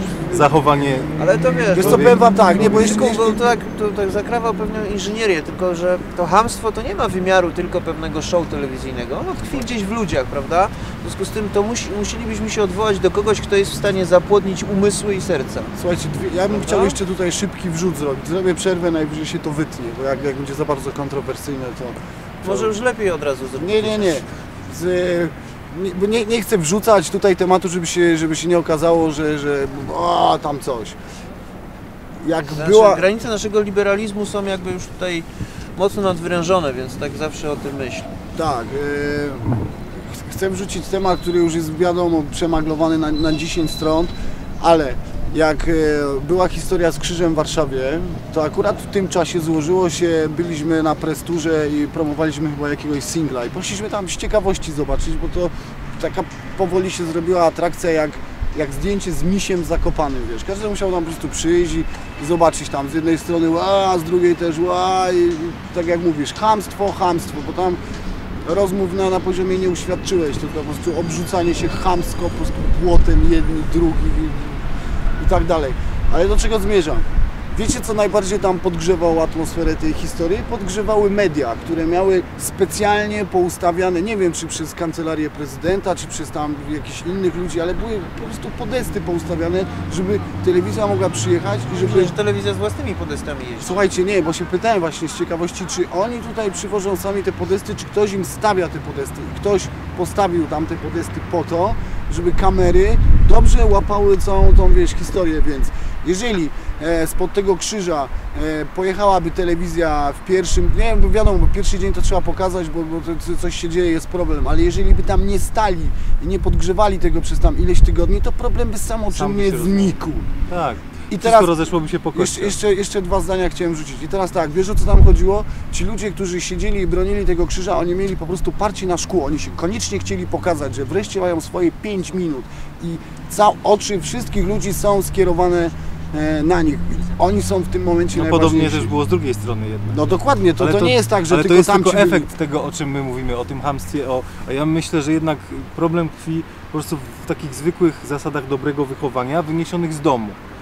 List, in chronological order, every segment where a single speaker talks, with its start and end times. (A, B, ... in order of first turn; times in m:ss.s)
0:00.2-0:01.2 A
0:01.2-0:15.8 B
0:01.7-0:02.2 A
0:01.7-0:03.4 C
0:15.8-0:22.7 C
0:16.4-0:17.0 B
0:22.4-0:24.3 B
0:23.6-0:31.0 C
0:32.2-0:33.0 C
0:32.5-0:38.1 B
0:38.4-1:07.8 C
1:08.4-1:32.2 C
1:31.7-1:33.8 B
1:33.6-2:00.3 C
1:59.1-2:00.0 A
2:00.5-2:02.6 A
2:01.1-2:01.5 C
2:02.1-2:18.9 C
2:18.1-2:30.4 A
2:19.9-2:22.3 C